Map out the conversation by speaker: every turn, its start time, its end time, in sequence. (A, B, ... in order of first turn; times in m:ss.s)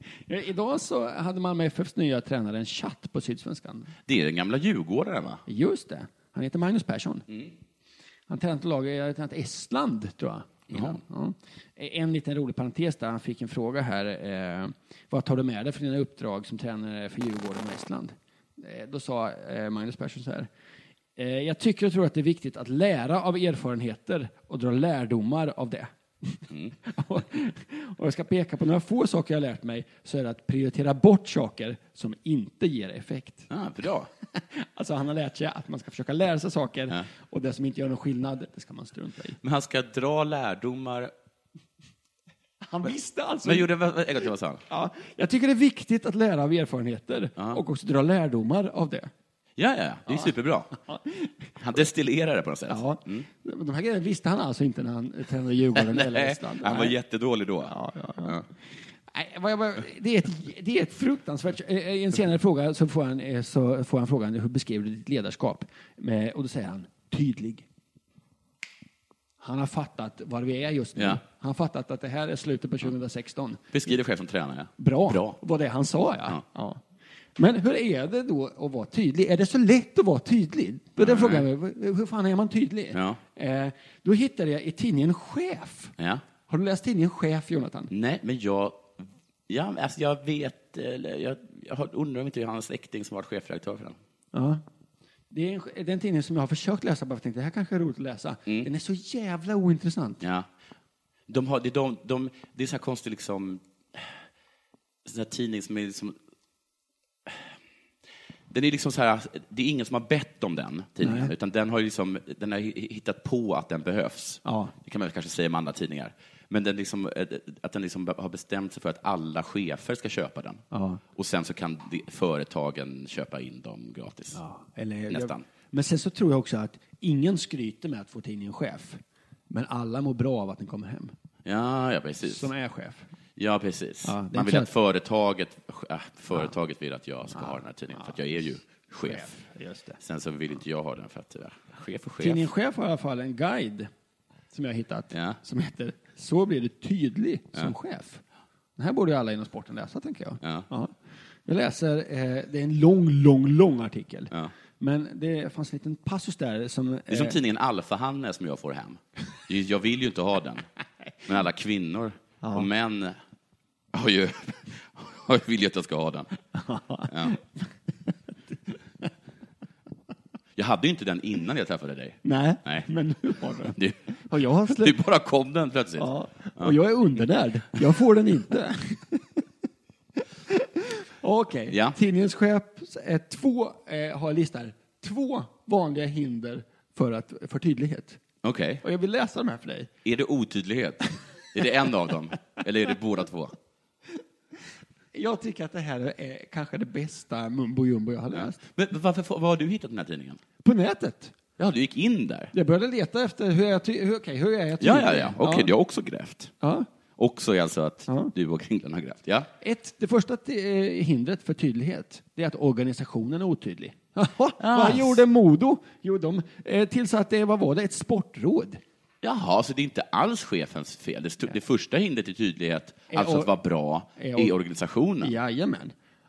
0:00.3-0:03.9 A
0:04.1-0:05.4 B
0:05.5-0:07.3 A
0:08.3-0:20.5 A
0:10.7-0:11.0 B
0:21.2-0:33.5 A
0:26.5-0:26.8 B
0:33.5-0:34.1 B
0:34.3-0:39.4 A
0:39.4-0:41.1 B
0:42.6-0:43.7 A
0:43.4-0:44.6 B
0:44.7-0:49.1 A
0:49.6-0:50.8 B
0:50.8-0:51.4 A
0:51.6-0:53.3 B
0:52.7-0:56.9 A
0:55.8-0:58.5 B
0:57.7-0:58.4 A
0:59.1-1:07.7 A
1:09.4-1:13.8 A
1:11.0-1:11.2 B
1:13.7-1:15.4 B
1:14.8-1:16.8 A
1:17.4-1:25.9 A
1:21.0-1:21.5 B
1:22.9-1:23.2 B
1:26.5-1:27.9 A
1:27.9-1:34.0 B
1:34.3-1:34.6 A
1:35.3-1:40.2 A
1:40.2-1:40.5 B
1:41.3-1:44.2 B
1:45.0-1:46.2 B
1:48.5-2:00.6 B
1:51.0-1:51.3 A
1:54.4-1:54.7 A
2:00.7-2:01.0 A
2:01.2-2:04.4 B
2:04.3-2:11.1 A
2:05.1-2:05.4 B
2:11.5-2:12.5 B
2:12.3-2:13.1 A
2:13.4-2:19.4 B
2:14.0-2:14.7 A
2:17.3-2:18.2 A
2:19.1-2:20.0 A
2:20.0-2:22.5 B
2:22.2-2:23.9 A
2:24.5-2:28.2 A
2:25.1-2:25.4 B
2:28.8-2:30.9 A
2:30.4-2:30.7 B
2:31.5-2:37.4 A
2:37.1-2:40.7 B
2:41.2-2:43.2 B
2:42.4-2:42.7 A
2:43.9-2:46.3 B
2:46.6-2:47.4 A
2:47.1-2:47.4 B
2:50.6-2:52.9 B
2:52.2-2:53.8 A
2:53.7-2:54.1 B
2:54.3-2:55.0 A
2:54.6-2:56.8 B
2:56.0-2:59.3 A
3:00.5-3:08.2 A
3:01.7-3:02.0 B
3:08.4-3:08.8 B
3:08.8-3:09.9 A
3:10.0-3:13.5 B
3:15.1-3:18.6 A
3:18.3-3:20.4 B
3:20.6-3:21.3 A
3:21.6-3:22.5 B
3:22.5-3:25.7 A
3:24.8-3:26.5 B
3:26.6-3:26.9 A
3:27.2-3:29.5 B
3:29.6-3:38.8 A
3:34.6-3:35.2 B
3:39.2-3:45.3 B
3:43.1-3:43.5 A
3:44.2-3:44.5 A
3:45.2-3:45.9 A